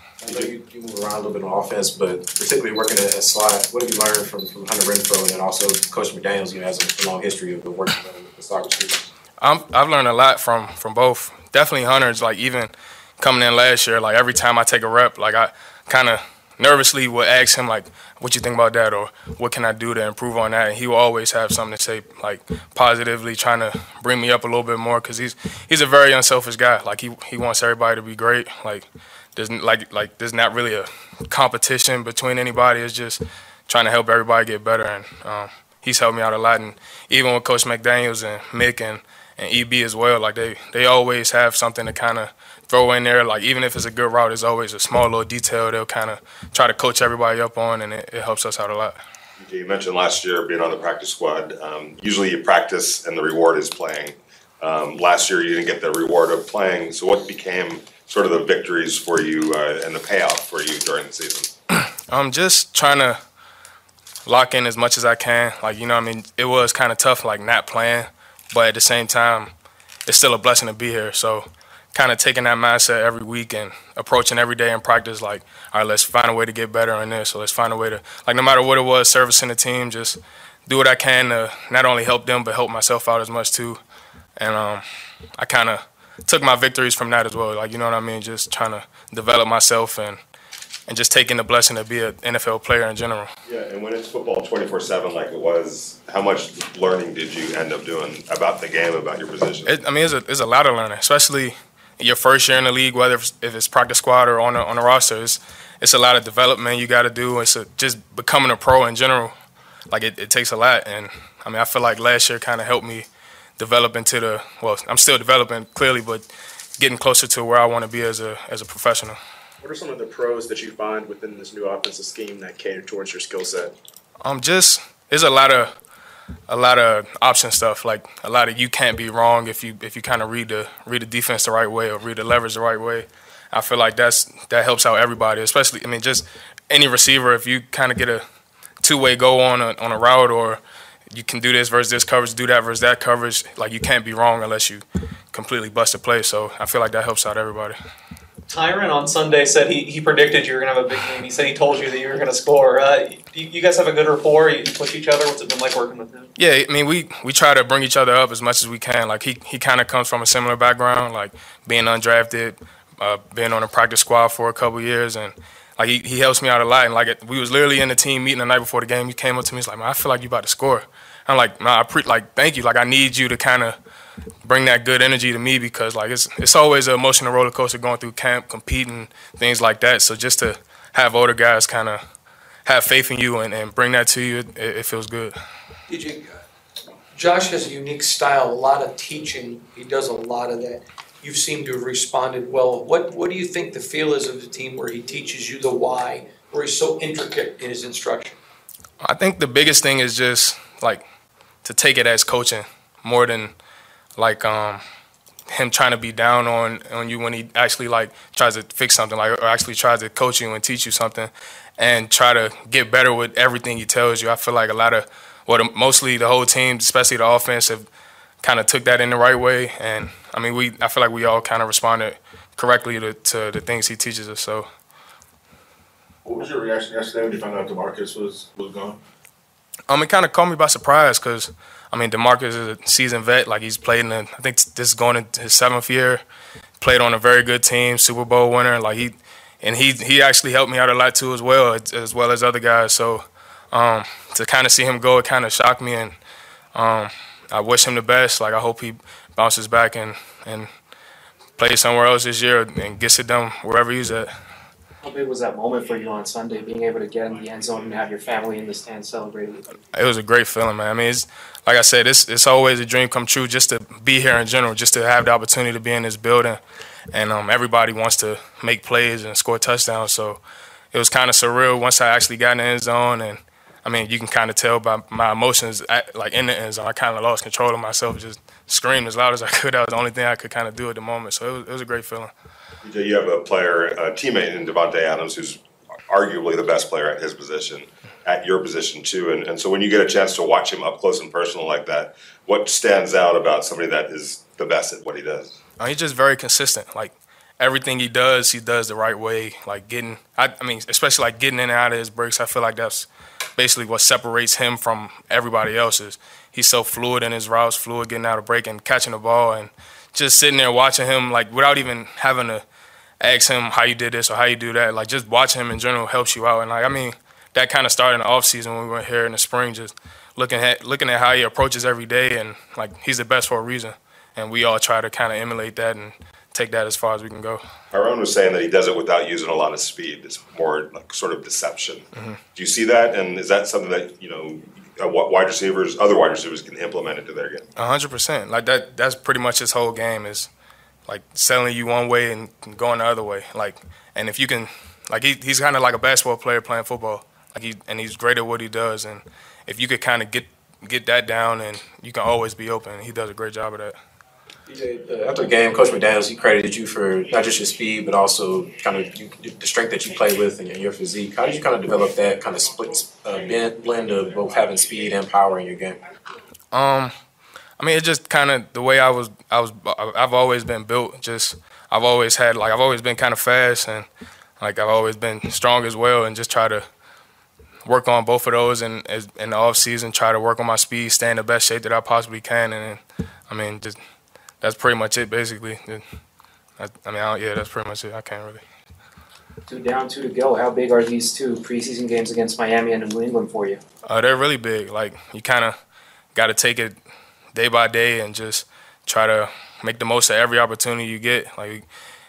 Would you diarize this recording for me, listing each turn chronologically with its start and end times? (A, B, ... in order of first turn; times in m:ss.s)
0:00.2-0:09.1 A
0:09.4-0:49.0 B
0:49.4-1:01.5 C
1:01.7-1:03.2 B
1:04.2-1:09.5 B
1:10.1-1:23.8 B
1:24.4-1:24.8 B
1:25.4-1:30.2 B
1:30.9-1:33.3 B
1:33.5-1:39.7 C
1:39.6-1:49.3 B
1:49.9-1:53.1 B
1:53.6-1:59.2 B
1:59.6-2:03.7 D
2:04.2-2:05.7 B
2:06.5-2:18.2 B
2:18.8-2:20.6 B
2:21.1-2:27.8 B
2:28.5-2:36.3 E
2:36.4-2:53.8 B
2:54.4-3:02.0 B
3:02.6-3:05.4 B
3:05.9-3:06.4 F
3:07.1-3:18.4 F
3:19.0-3:21.0 B
3:21.6-3:23.5 B
3:24.2-3:24.8 B
3:25.5-3:37.9 B
3:38.4-3:44.6 B
3:46.2-3:49.0 G
3:49.9-3:56.2 B
3:56.8-4:06.1 B
4:06.7-4:10.7 B
4:11.6-4:14.3 B
4:15.2-4:19.6 H
4:15.6-4:16.0 E
4:17.3-4:18.7 E
4:19.9-4:26.6 B
4:27.1-4:30.4 B
4:30.9-4:42.3 B
4:42.8-4:55.6 C
4:55.8-5:12.6 B
5:13.2-5:27.6 B
5:27.9-5:37.6 C
5:37.8-5:40.5 B
5:41.1-5:53.9 B
5:54.7-6:06.0 A
6:06.7-6:07.1 B
6:07.8-6:14.1 B
6:14.6-6:16.8 B
6:17.8-6:24.0 B
6:24.6-6:26.0 B
6:26.8-6:28.6 B
6:29.7-6:33.8 H
6:34.1-6:35.8 B
6:36.3-6:37.0 B
6:37.5-6:41.8 B